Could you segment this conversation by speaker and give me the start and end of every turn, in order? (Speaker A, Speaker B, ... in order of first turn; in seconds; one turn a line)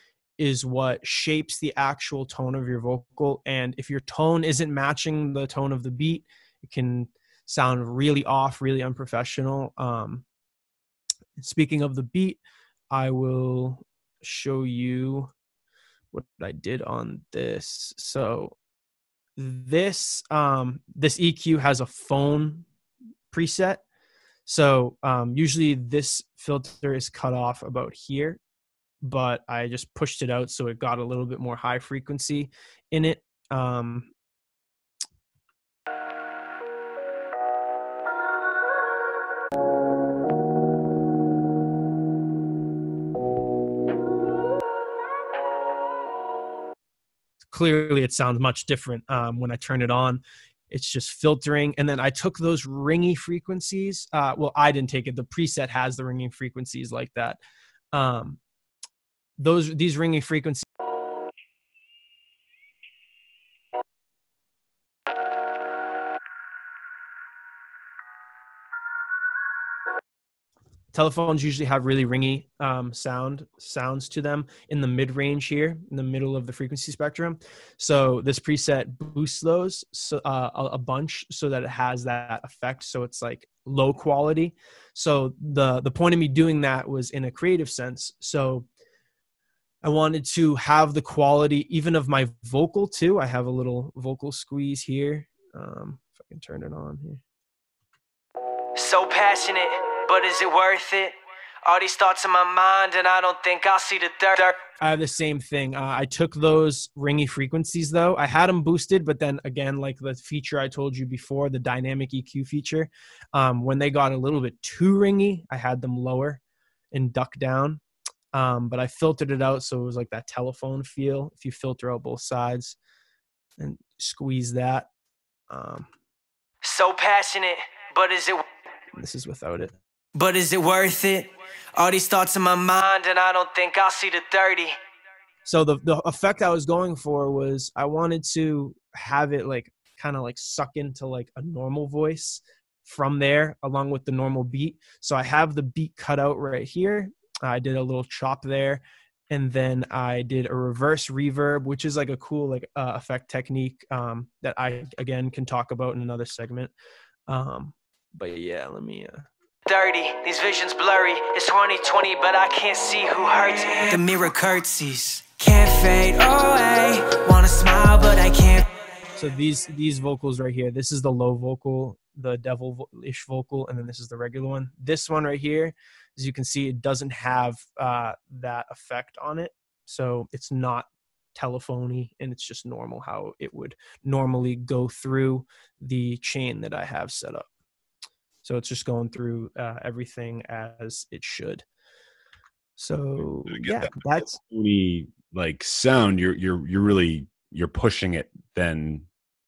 Speaker A: 0.4-10.2
Speaker A: 11.4-12.4
Speaker A: 12.9-15.3
Speaker A: 16.1-18.6
Speaker A: 19.4-22.6
Speaker A: 23.3-23.8
Speaker A: 24.4-28.4
Speaker A: 29.0-34.1
Speaker A: 47.5-57.4
Speaker A: 57.9-58.4
Speaker A: 59.4-60.6
Speaker A: 70.9-88.7
Speaker A: 89.8-97.2
Speaker B: 98.8-104.6
Speaker A: 104.8-116.4
Speaker A: 116.9-117.8
Speaker A: 118.3-122.8
Speaker A: 123.6-124.9
Speaker A: 125.5-125.9
Speaker B: 126.6-128.4
Speaker A: 128.9-129.7
Speaker B: 130.1-134.8
Speaker A: 135.4-156.7
Speaker A: 157.3-159.3
Speaker B: 159.7-168.7
Speaker A: 169.2-187.5
Speaker A: 188.4-191.6
Speaker A: 192.8-194.4
Speaker C: 193.5-199.1